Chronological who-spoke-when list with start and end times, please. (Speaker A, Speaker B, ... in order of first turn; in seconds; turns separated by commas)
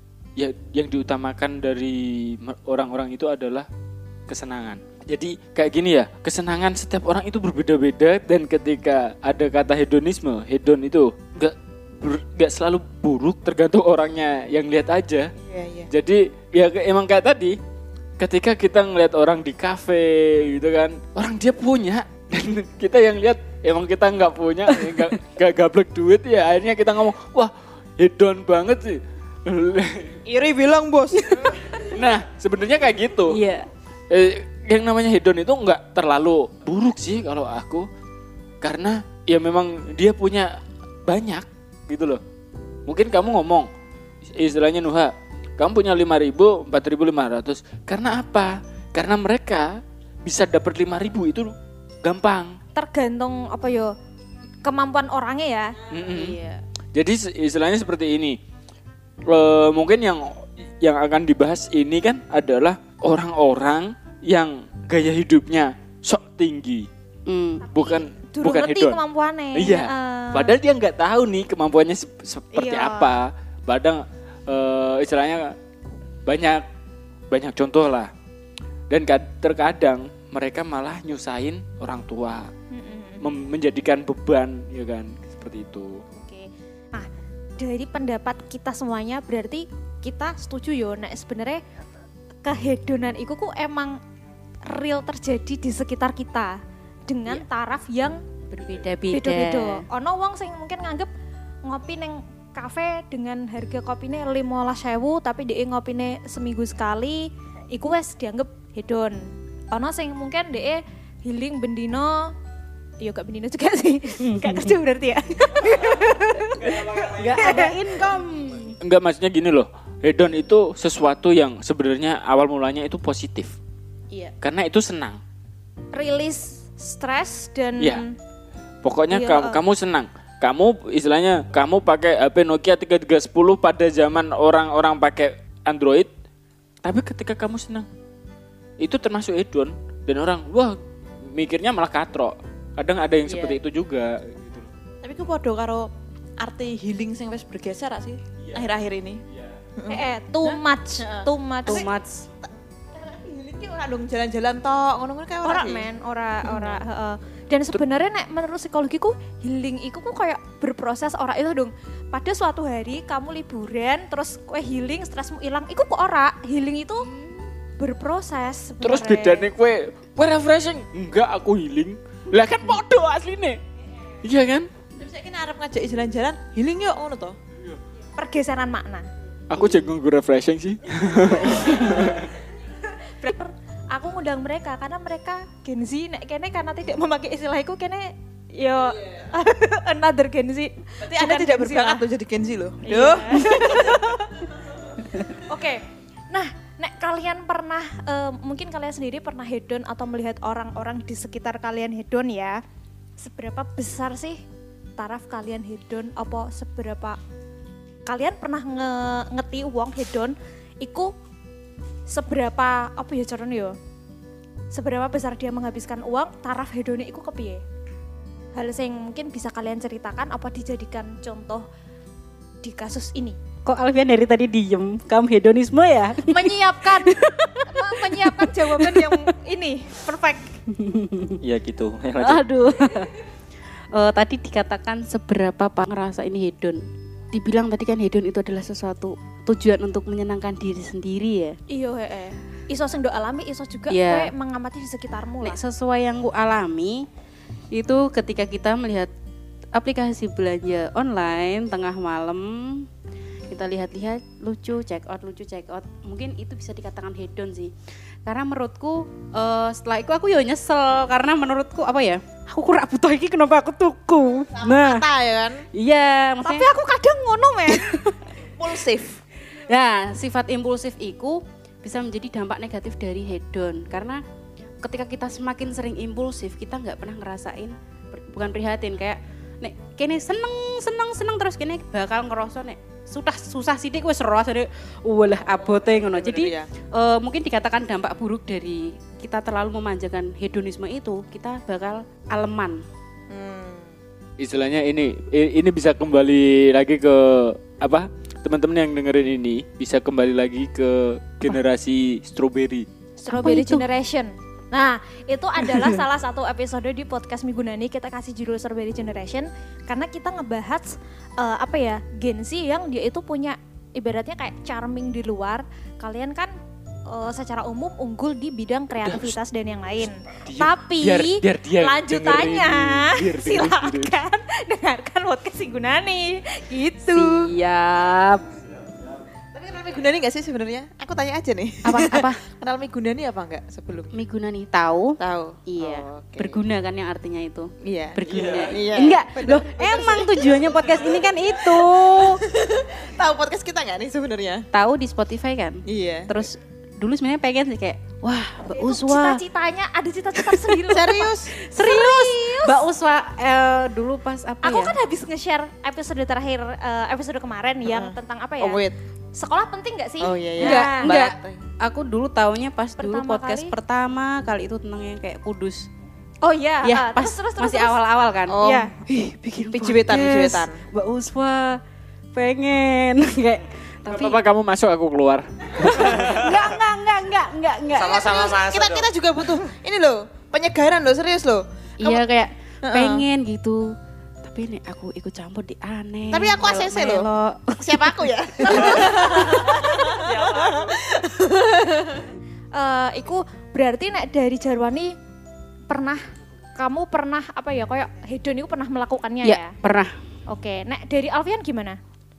Speaker A: 0.4-3.7, Speaker A: 4.3-15.3, Speaker B: 15.4-15.9, Speaker A: 15.9-17.6, Speaker A: 18.2-30.2, Speaker B: 30.2-31.5, Speaker C: 31.1-31.7, Speaker A: 31.8-33.4, Speaker C: 33.3-33.7, Speaker A: 34.1-37.9, Speaker A: 38.6-42.2, Speaker A: 42.9-43.7, Speaker A: 44.3-52.6, Speaker D: 52.7-53.9, Speaker D: 54.6-55.7, Speaker A: 55.9-56.4, Speaker C: 56.1-56.6, Speaker A: 56.9-58.4, Speaker A: 59.3-66.9, Speaker C: 67.3-67.7, Speaker D: 67.7-70.5, Speaker A: 67.7-69.0, Speaker A: 69.5-75.5, Speaker D: 72.5-73.2, Speaker A: 76.2-76.6, Speaker A: 77.3-78.1, Speaker A: 78.9-82.5, Speaker D: 82.7-83.2, Speaker A: 83.2-86.0, Speaker D: 86.1-91.6, Speaker D: 92.4-94.0, Speaker D: 94.7-98.2, Speaker C: 98.5-99.8, Speaker D: 99.1-101.1, Speaker D: 101.6-112.3, Speaker D: 113.0-117.8, Speaker C: 114.2-114.7, Speaker C: 116.6-118.8, Speaker A: 118.8-123.5, Speaker A: 124.4-125.2, Speaker D: 125.9-128.1, Speaker A: 128.8-136.1, Speaker D: 129.1-129.6, Speaker A: 136.8-137.9, Speaker A: 138.8-140.8, Speaker A: 141.3-144.7, Speaker C: 143.2-143.6, Speaker B: 145.0-149.2, Speaker B: 149.8-151.8, Speaker D: 149.9-151.9, Speaker C: 151.7-152.3, Speaker B: 152.4-155.9, Speaker D: 155.4-167.1, Speaker B: 156.4-156.8, Speaker D: 167.8-169.5, Speaker A: 168.8-173.6, Speaker A: 174.2-174.7, Speaker B: 174.9-177.3, Speaker D: 178.1-179.1, Speaker A: 179.5-182.3, Speaker C: 179.6-179.8, Speaker D: 183.0-192.0, Speaker B: 191.0-194.0, Speaker D: 192.8-194.4, Speaker D: 195.2-202.6, Speaker D: 203.2-204.4, Speaker D: 205.0-207.2, Speaker D: 208.1-211.1, Speaker D: 212.1-213.8, Speaker D: 214.7-217.6, Speaker D: 218.5-221.7, Speaker D: 222.6-223.4, Speaker C: 223.6-229.3, Speaker D: 226.2-230.5, Speaker C: 230.7-231.4, Speaker E: 231.4-232.4, Speaker C: 232.2-233.2, Speaker C: 233.9-241.6, Speaker D: 241.7-245.6, Speaker C: 243.9-244.3, Speaker C: 245.4-247.1, Speaker C: 247.7-249.1, Speaker C: 249.7-252.9, Speaker C: 253.5-257.7, Speaker C: 258.2-265.1, Speaker B: 264.6-265.6, Speaker C: 265.7-266.7, Speaker D: 266.4-267.8, Speaker C: 267.7-268.3, Speaker B: 268.6-269.2, Speaker C: 269.5-274.2, Speaker C: 274.8-292.8, Speaker B: 286.0-286.7, Speaker B: 293.3-293.9, Speaker A: 294.4-302.9, Speaker D: 303.2-316.5, Speaker C: 303.3-303.9, Speaker C: 305.6-306.0, Speaker D: 317.1-327.5, Speaker A: 319.0-319.4, Speaker A: 320.4-324.1, Speaker C: 327.1-328.5, Speaker B: 329.5-334.1, Speaker C: 331.8-332.4, Speaker C: 334.1-342.4, Speaker B: 335.2-336.6, Speaker B: 337.8-344.7, Speaker C: 344.7-349.4, Speaker B: 345.9-346.3, Speaker D: 348.7-352.8, Speaker C: 350.4-350.8, Speaker B: 350.9-351.5, Speaker C: 351.5-355.0, Speaker D: 354.6-358.8, Speaker B: 357.9-358.9, Speaker D: 359.4-361.1, Speaker B: 360.2-361.6, Speaker C: 360.6-365.9, Speaker D: 363.0-363.7, Speaker D: 366.4-368.0, Speaker C: 366.8-371.8, Speaker B: 368.5-368.9, Speaker D: 368.6-368.9, Speaker B: 369.7-370.8, Speaker C: 372.3-374.4, Speaker A: 374.1-376.5, Speaker C: 375.8-378.6, Speaker E: 376.2-376.6, Speaker E: 377.9-379.1, Speaker B: 378.1-382.3, Speaker C: 382.0-383.9, Speaker B: 382.8-383.2, Speaker C: 384.4-390.4, Speaker B: 386.3-392.3, Speaker D: 388.8-389.6, Speaker D: 392.7-395.1, Speaker D: 395.9-396.2, Speaker D: 396.8-399.7, Speaker C: 399.4-400.2, Speaker D: 400.5-402.0